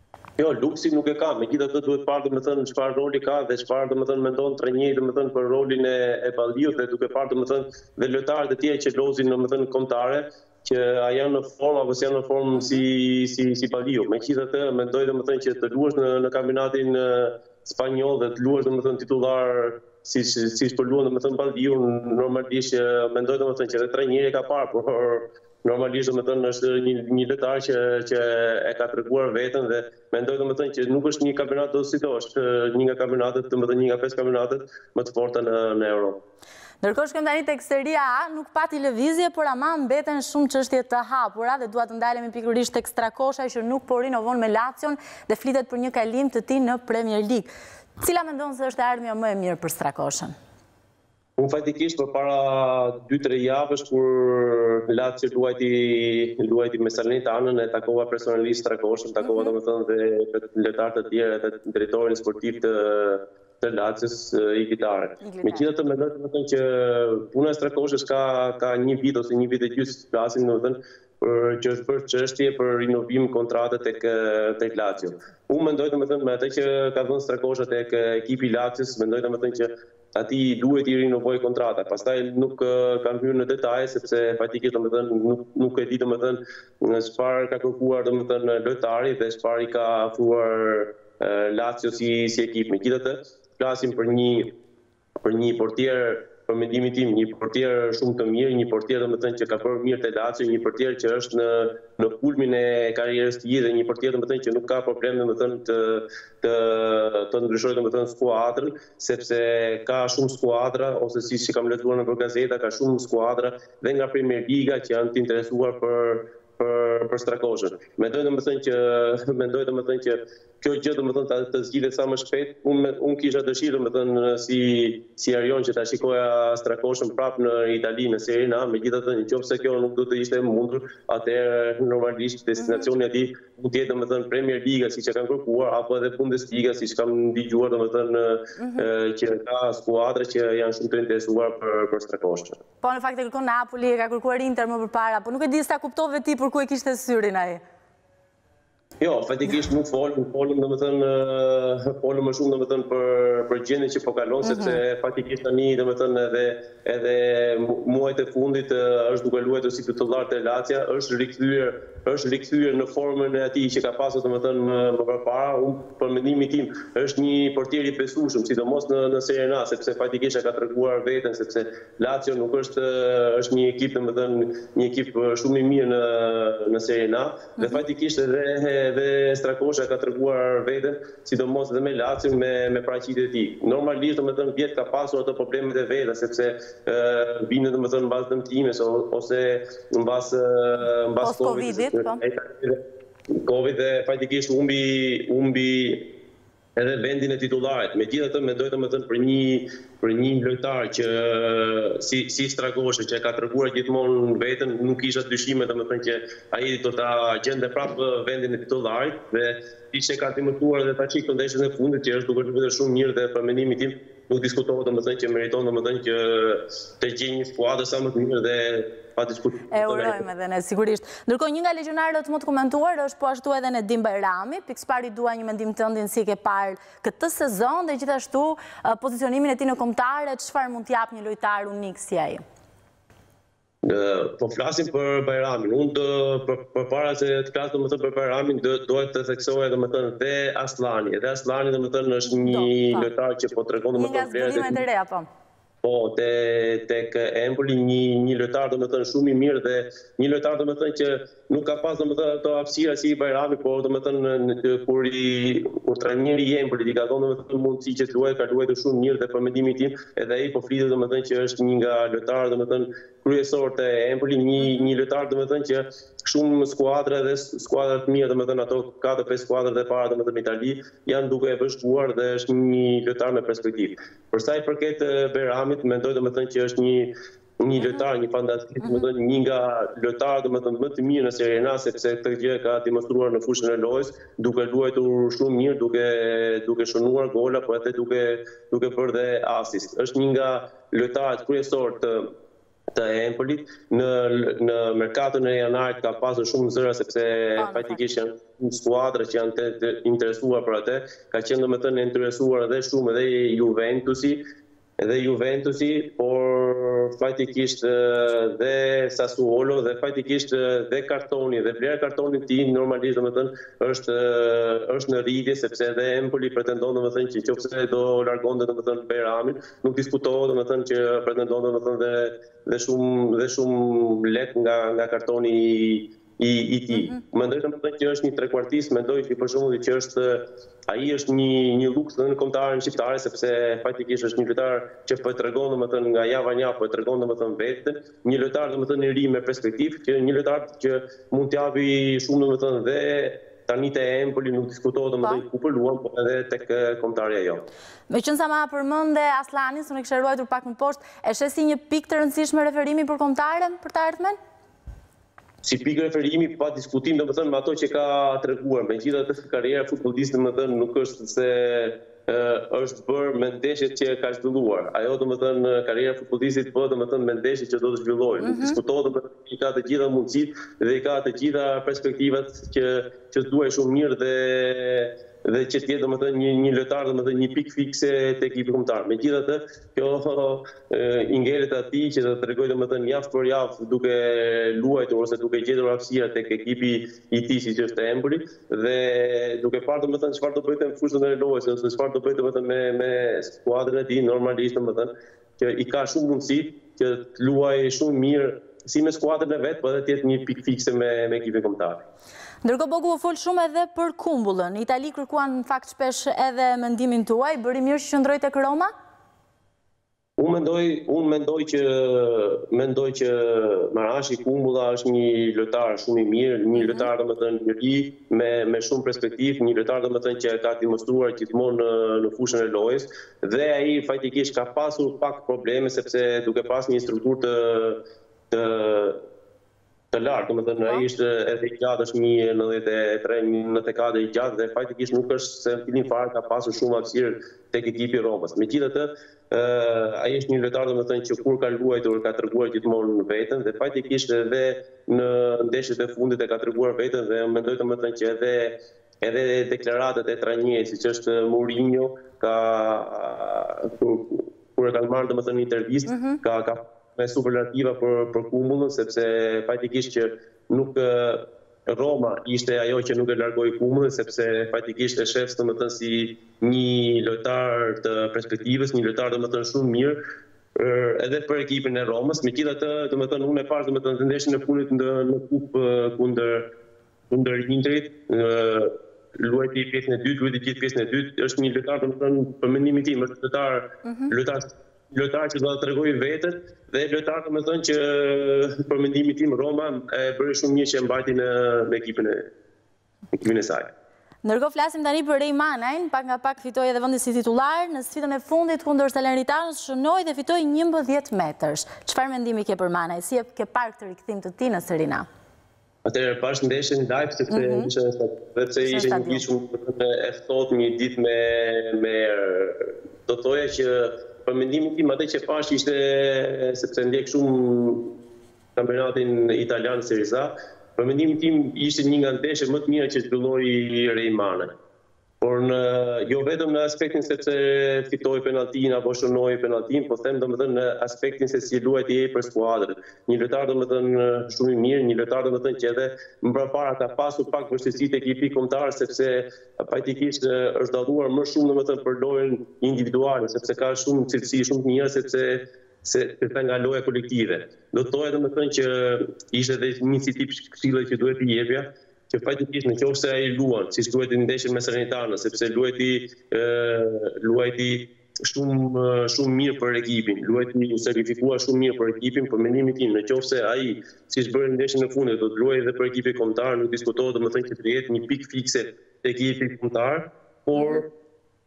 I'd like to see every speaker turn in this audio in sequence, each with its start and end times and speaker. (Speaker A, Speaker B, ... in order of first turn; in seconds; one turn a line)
Speaker A: 0.4-36.2
Speaker B: 12.6-12.8
Speaker B: 36.8-50.4
Speaker A: 51.4-94.5
Speaker B: 59.2-59.5
Speaker B: 65.2-65.7
Speaker A: 95.2-142.6
Speaker B: 132.6-132.9
Speaker B: 138.6-138.9
Speaker B: 142.8-147.6
Speaker A: 149.0-192.8
Speaker B: 154.4-154.8
Speaker B: 177.6-177.8
Speaker B: 191.2-192.2
Speaker A: 193.3-196.0
Speaker A: 196.8-220.2
Speaker B: 219.7-232.4
Speaker A: 233.8-244.8
Speaker B: 242.3-243.1
Speaker B: 244.0-245.3
Speaker A: 245.8-292.3
Speaker A: 292.9-304.4
Speaker B: 297.6-298.0
Speaker A: 305.0-347.6
Speaker B: 326.9-327.2
Speaker B: 348.1-354.4
Speaker A: 355.6-402.0
Speaker B: 368.4-368.8
Speaker B: 402.6-408.9
Speaker A: 410.4-428.0
Speaker B: 416.8-417.1
Speaker A: 428.5-429.2
Speaker A: 430.1-470.2
Speaker B: 456.1-456.4
Speaker A: 470.8-476.6
Speaker A: 477.3-492.4
Speaker B: 484.0-484.3
Speaker A: 493.3-493.9
Speaker B: 494.4-505.3
Speaker A: 506.1-518.1
Speaker B: 507.5-507.9
Speaker B: 508.8-509.4
Speaker A: 518.8-524.7
Speaker A: 525.4-571.1
Speaker B: 570.8-571.0